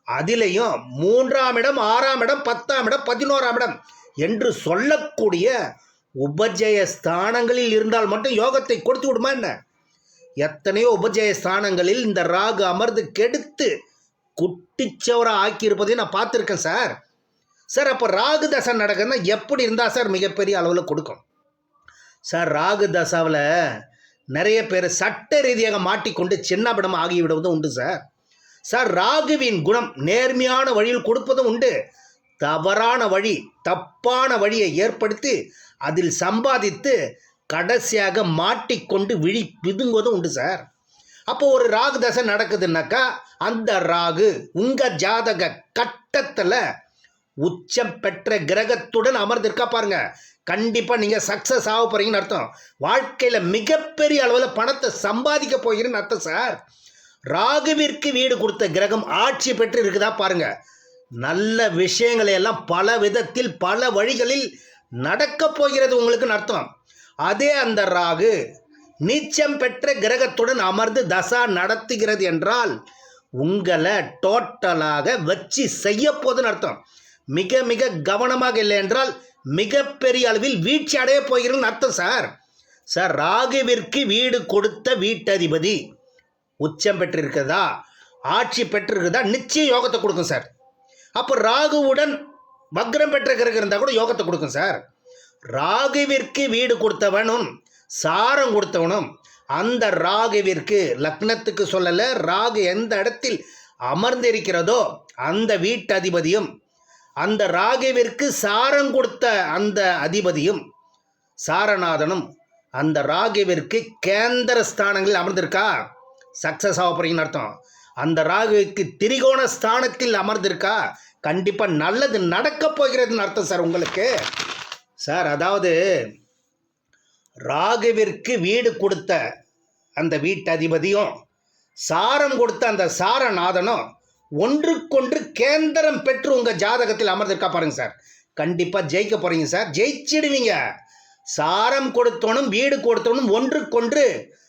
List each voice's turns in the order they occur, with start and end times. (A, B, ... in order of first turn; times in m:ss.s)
0:00.2-0:05.5 A
0:06.2-0:09.5 A
0:10.4-0:13.7 A
0:14.4-0:17.0 A
0:17.7-0:21.2 A
0:22.3-0:23.4 A
0:24.3-0:28.0 A
0:28.7-0:31.7 A
0:32.4-0:37.0 A
0:37.5-0:40.6 A
0:41.3-0:46.6 A
0:47.4-0:56.6 A
0:57.3-1:00.5 A
1:01.2-1:04.5 A
1:05.0-1:06.7 A
1:07.2-1:08.3 A
1:09.0-1:12.7 A
1:13.4-1:16.8 A
1:17.3-1:22.3 A
1:22.9-1:25.8 A
1:26.6-1:27.7 A
1:28.3-1:30.5 A
1:31.2-1:32.2 A
1:32.8-1:34.8 A
1:35.5-1:37.5 A
1:38.0-1:46.5 A
1:47.2-1:50.6 A
1:51.4-1:52.2 A
1:52.8-1:55.7 A
1:56.4-2:04.1 A
2:05.0-2:05.7 A
2:07.5-2:09.2 A
2:10.0-2:11.1 A
2:11.9-2:13.8 A
2:14.4-2:20.6 A
2:21.3-2:24.1 A